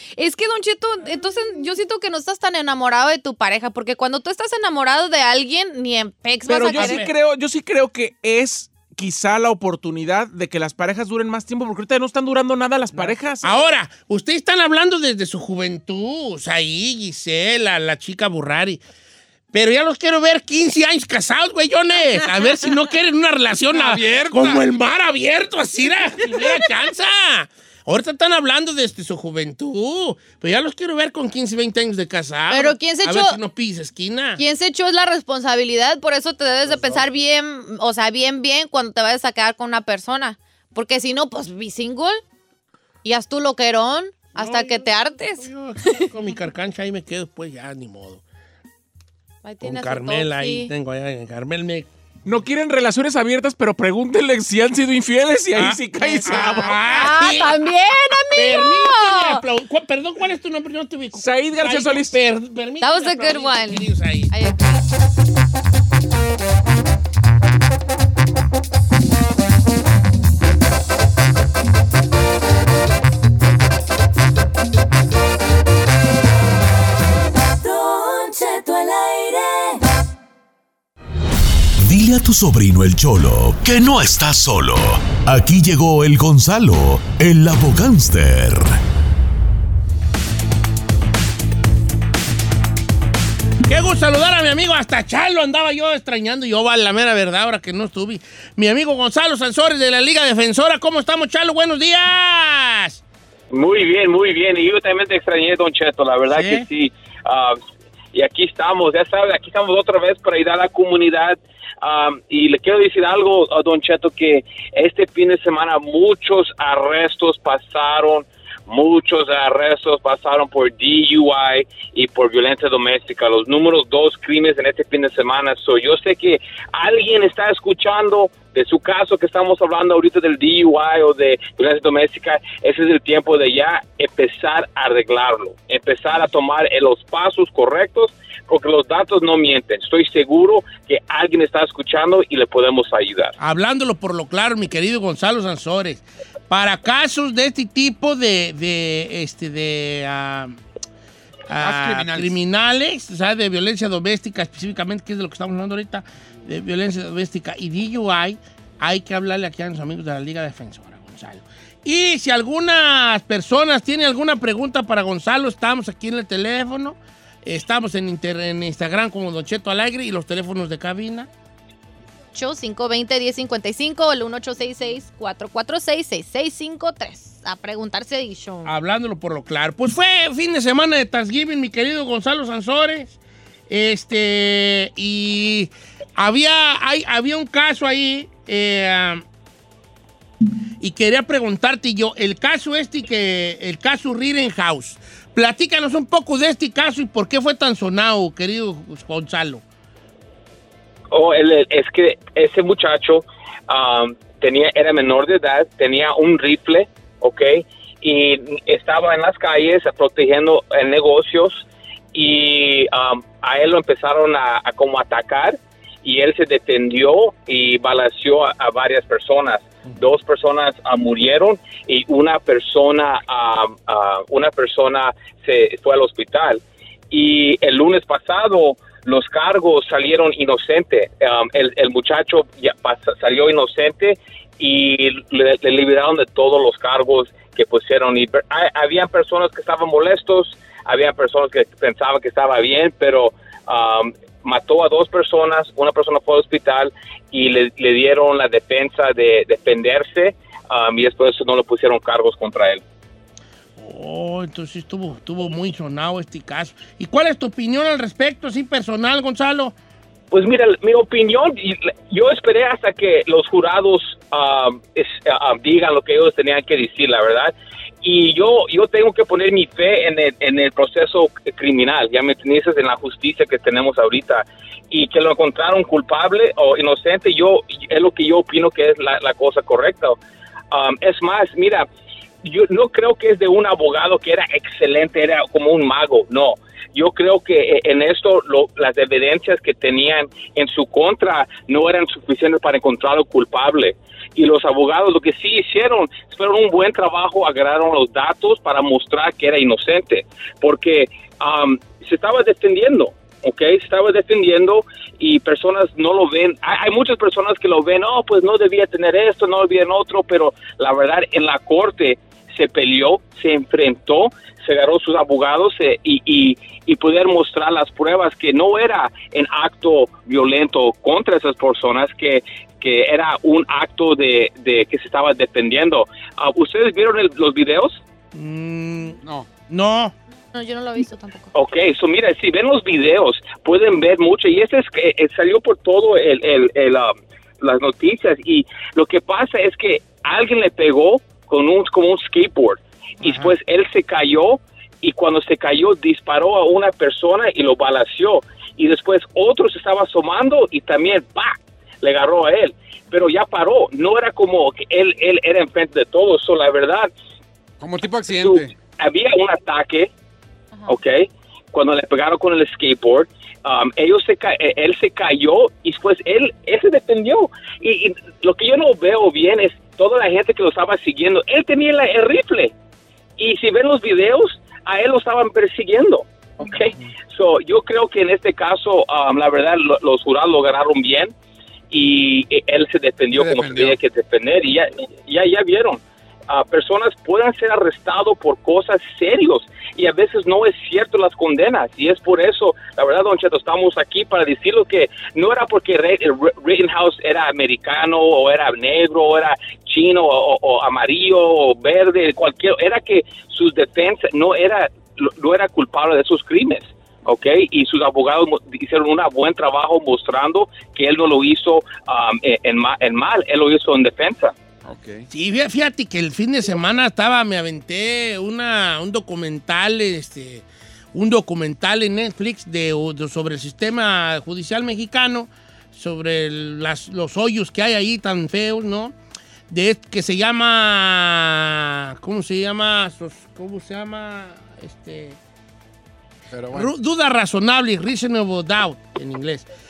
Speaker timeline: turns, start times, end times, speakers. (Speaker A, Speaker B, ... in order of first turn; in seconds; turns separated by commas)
Speaker A: 0.2-7.1, Speaker B: 6.5-13.5, Speaker C: 6.6-7.1, Speaker C: 12.9-18.8, Speaker C: 19.5-34.4, Speaker D: 23.7-24.6, Speaker A: 32.5-33.4, Speaker A: 34.4-42.2, Speaker C: 36.6-37.1, Speaker A: 43.0-46.0, Speaker C: 44.4-48.2, Speaker A: 49.4-50.7, Speaker C: 49.6-51.9, Speaker B: 52.3-57.1, Speaker C: 55.5-57.5, Speaker A: 56.0-59.4, Speaker C: 58.4-64.3, Speaker B: 61.1-62.2, Speaker A: 62.8-64.8, Speaker E: 77.5-79.9, Speaker F: 81.8-88.8, Speaker C: 93.7-103.0, Speaker G: 103.5-107.6, Speaker C: 106.3-106.7, Speaker G: 108.1-143.3, Speaker C: 143.4-150.6, Speaker C: 151.5-171.3, Speaker D: 151.6-152.4, Speaker A: 172.3-178.7, Speaker C: 178.7-183.2, Speaker C: 183.7-189.2, Speaker C: 190.8-199.6, Speaker G: 201.1-252.8, Speaker C: 253.8-259.8, Speaker G: 260.3-280.2, Speaker G: 280.7-281.9, Speaker G: 282.4-328.0, Speaker C: 328.3-330.1, Speaker D: 329.2-329.5, Speaker A: 330.5-331.5, Speaker G: 331.5-357.1, Speaker C: 343.2-343.6, Speaker D: 357.8-358.7, Speaker G: 358.3-360.1, Speaker G: 360.9-372.7, Speaker G: 373.4-381.3, Speaker G: 381.9-414.6, Speaker D: 383.3-384.0, Speaker D: 414.9-415.3, Speaker C: 415.3-429.1, Speaker C: 429.7-435.4, Speaker D: 436.5-436.9, Speaker C: 436.7-439.7